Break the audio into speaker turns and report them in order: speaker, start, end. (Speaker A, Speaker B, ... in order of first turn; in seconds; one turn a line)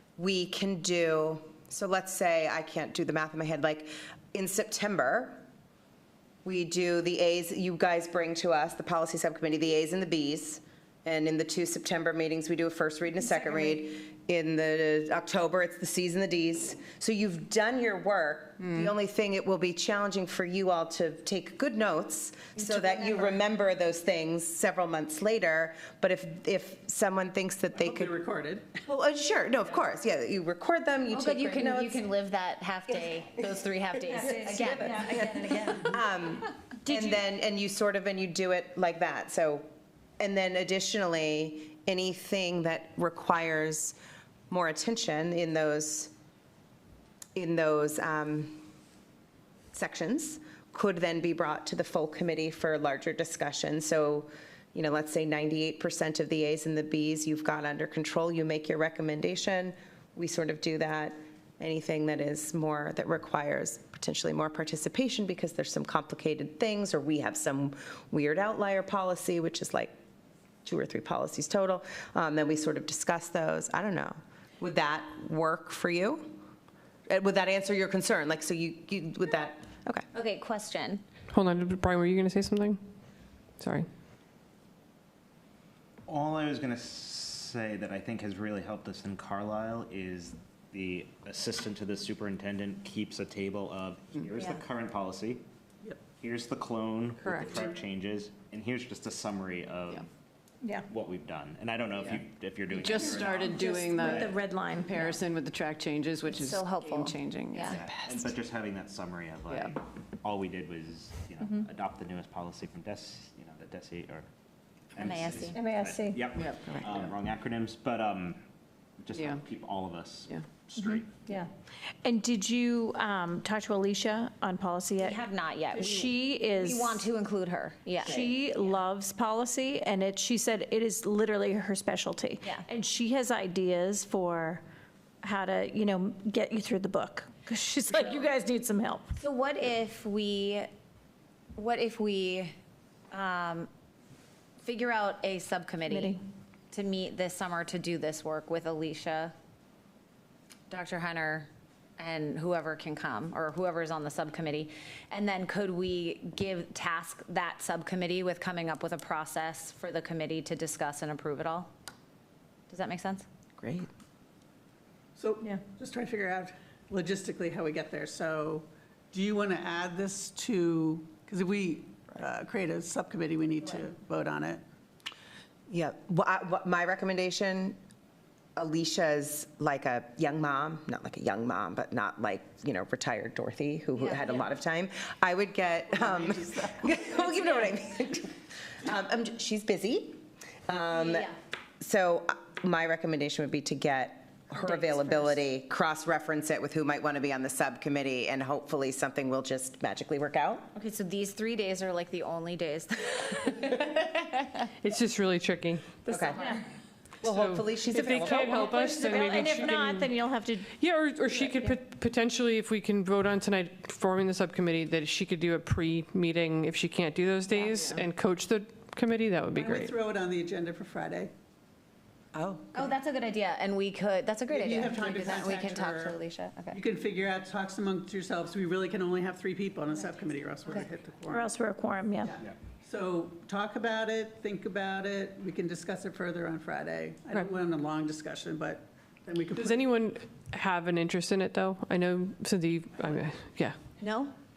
Speaker A: 0.2-5.4
Speaker A: 6.4-28.2
Speaker B: 27.7-28.8
Speaker A: 28.7-32.0
Speaker C: 31.1-35.5
Speaker D: 34.1-36.0
Speaker A: 34.2-39.6
Speaker D: 36.8-37.2
Speaker A: 40.2-44.0
Speaker A: 44.5-46.1
Speaker A: 47.3-48.6
Speaker A: 49.7-69.9
Speaker A: 70.6-76.3
Speaker A: 77.1-80.0
Speaker C: 80.1-81.0
Speaker E: 81.3-82.8
Speaker E: 83.6-83.9
Speaker F: 86.1-95.4
Speaker F: 96.2-100.1
Speaker F: 100.8-104.4
Speaker G: 103.0-104.1
Speaker D: 103.6-105.2
Speaker G: 104.8-107.7
Speaker C: 106.3-107.8
Speaker F: 107.7-114.2
Speaker F: 114.9-118.4
Speaker C: 115.0-115.6
Speaker D: 115.5-116.3
Speaker F: 119.0-121.1
Speaker D: 120.8-121.5
Speaker D: 122.0-127.1
Speaker C: 125.0-128.3
Speaker D: 128.0-134.6
Speaker D: 135.2-139.2
Speaker C: 139.2-140.7
Speaker C: 141.6-142.5
Speaker C: 143.1-143.7
Speaker C: 144.6-146.2
Speaker D: 145.9-146.2
Speaker C: 146.7-149.3
Speaker C: 150.7-161.7
Speaker C: 162.7-163.2
Speaker A: 163.6-163.9
Speaker B: 165.2-174.6
Speaker A: 175.7-177.8
Speaker A: 178.6-200.7
Speaker C: 183.9-184.5
Speaker B: 185.9-187.2
Speaker C: 190.9-191.3
Speaker C: 194.6-195.3
Speaker C: 200.7-204.7
Speaker E: 204.8-206.0
Speaker C: 206.1-206.5
Speaker A: 206.1-206.4
Speaker A: 207.2-209.6
Speaker E: 207.2-210.1
Speaker D: 208.4-210.7
Speaker E: 210.7-219.9
Speaker D: 211.3-211.8
Speaker B: 219.5-221.3
Speaker A: 222.3-222.6
Speaker C: 222.7-226.8
Speaker B: 224.5-226.2
Speaker B: 226.7-231.5
Speaker D: 231.3-232.3
Speaker B: 232.2-239.9
Speaker E: 239.6-243.8
Speaker C: 244.0-244.3